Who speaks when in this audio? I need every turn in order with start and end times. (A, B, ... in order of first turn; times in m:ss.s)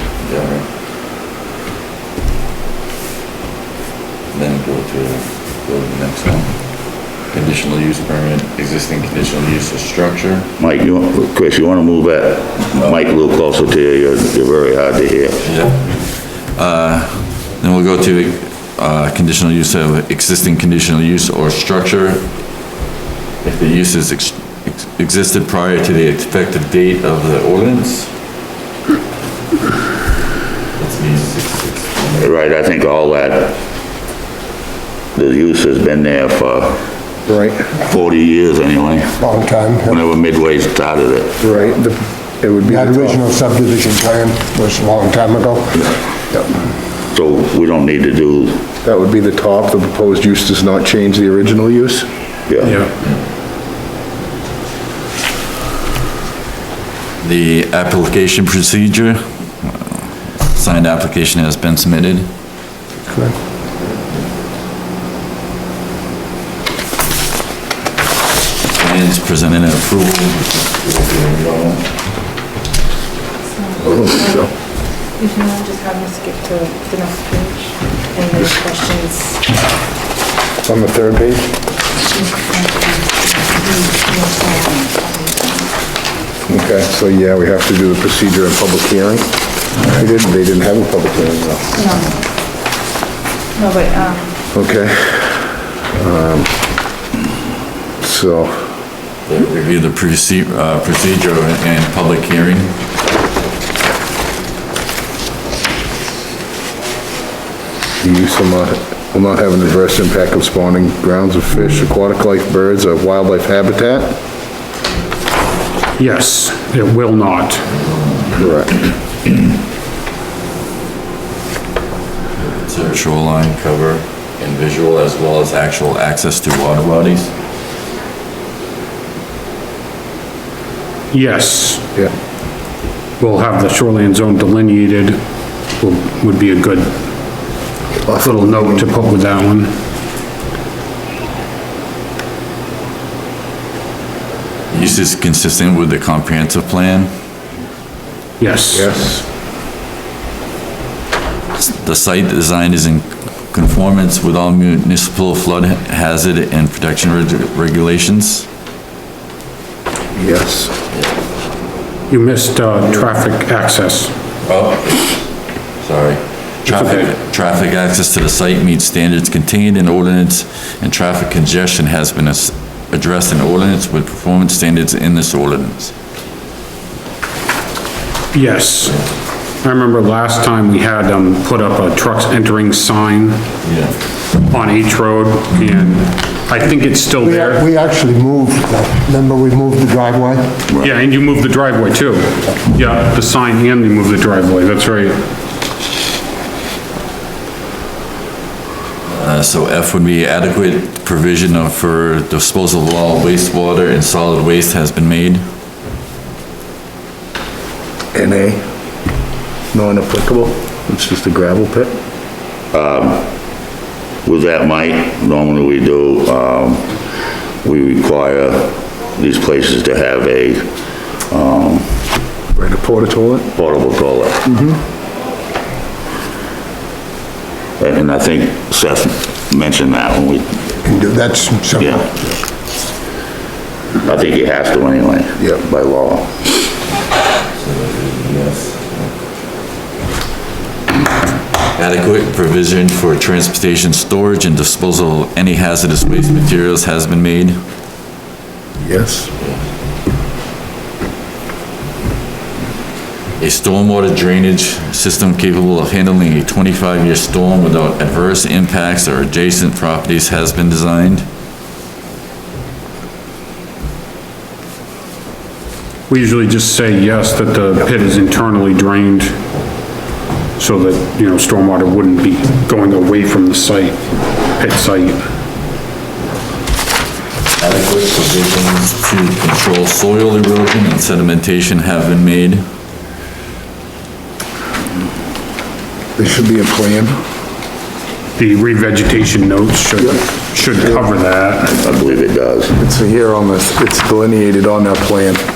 0:00.2-0:00.6 A
0:04.3-0:06.5 A
0:07.2-0:10.5 A
0:10.6-0:15.4 B
0:15.4-0:22.2 A
0:23.4-0:28.1 A
0:30.8-0:32.3 A
0:32.2-0:33.6 B
0:35.2-0:36.8 B
0:37.3-0:37.8 C
0:37.8-0:39.2 B
0:39.2-0:40.0 D
0:39.8-0:41.4 B
0:41.4-0:43.2 C
0:42.6-0:46.5 D
0:47.1-0:48.6 B
0:48.8-0:52.1 C
0:52.5-0:52.8 B
0:52.6-0:52.9 E
0:57.2-0:59.8 A
1:00.5-1:02.3 A
1:03.1-1:03.3 D
1:08.8-1:11.8 A
1:13.8-1:14.5 C
1:13.9-1:14.4 F
1:15.2-1:19.4 F
1:20.6-1:21.5 C
1:22.2-1:25.7 F
1:26.5-1:29.3 C
1:29.8-1:31.7 C
1:33.6-1:34.3 F
1:34.5-1:36.5 C
1:38.0-1:38.7 C
1:39.3-1:42.8 A
1:48.0-1:54.2 C
1:56.0-1:57.7 E
1:57.7-1:58.4 A
1:58.4-1:58.8 C
2:02.4-2:07.3 A
2:11.1-2:11.9 E
2:13.2-2:15.2 E
2:15.8-2:17.0 E
2:18.0-2:18.9 C
2:18.2-2:19.7 E
2:24.7-2:27.1 A
2:28.4-2:29.0 E
2:28.7-2:29.2 C
2:31.6-2:38.5 A
2:40.2-2:40.7 C
2:42.1-2:44.1 E
2:44.5-2:45.1 A
2:45.8-2:55.9 A
2:46.7-2:47.1 E
2:58.3-2:59.0 E
2:59.6-3:03.5 E
3:03.6-3:03.9 A
3:04.4-3:07.7 E
3:07.2-3:10.7 D
3:10.8-3:15.2 E
3:19.1-3:25.4 A
3:28.1-3:28.6 C
3:29.7-3:32.0 C
3:32.7-3:33.3 B
3:34.2-3:37.0 B
3:37.6-3:40.7 B
3:41.3-3:42.0 B
3:42.6-3:43.5 C
3:43.6-3:44.4 B
3:44.5-3:44.8 C
3:47.8-3:50.6 B
3:50.8-3:52.2 D
3:51.8-3:52.0 B
3:54.0-3:56.4 B
3:57.6-3:59.2 A
4:01.8-4:07.6 A
4:08.8-4:09.3 C
4:13.4-4:21.2 A
4:26.1-4:29.4 E
4:30.6-4:35.3 E
4:37.6-4:42.6 A
4:46.2-4:47.2 C
4:48.4-4:51.7 E
4:51.6-4:52.8 B
4:52.8-4:55.4 C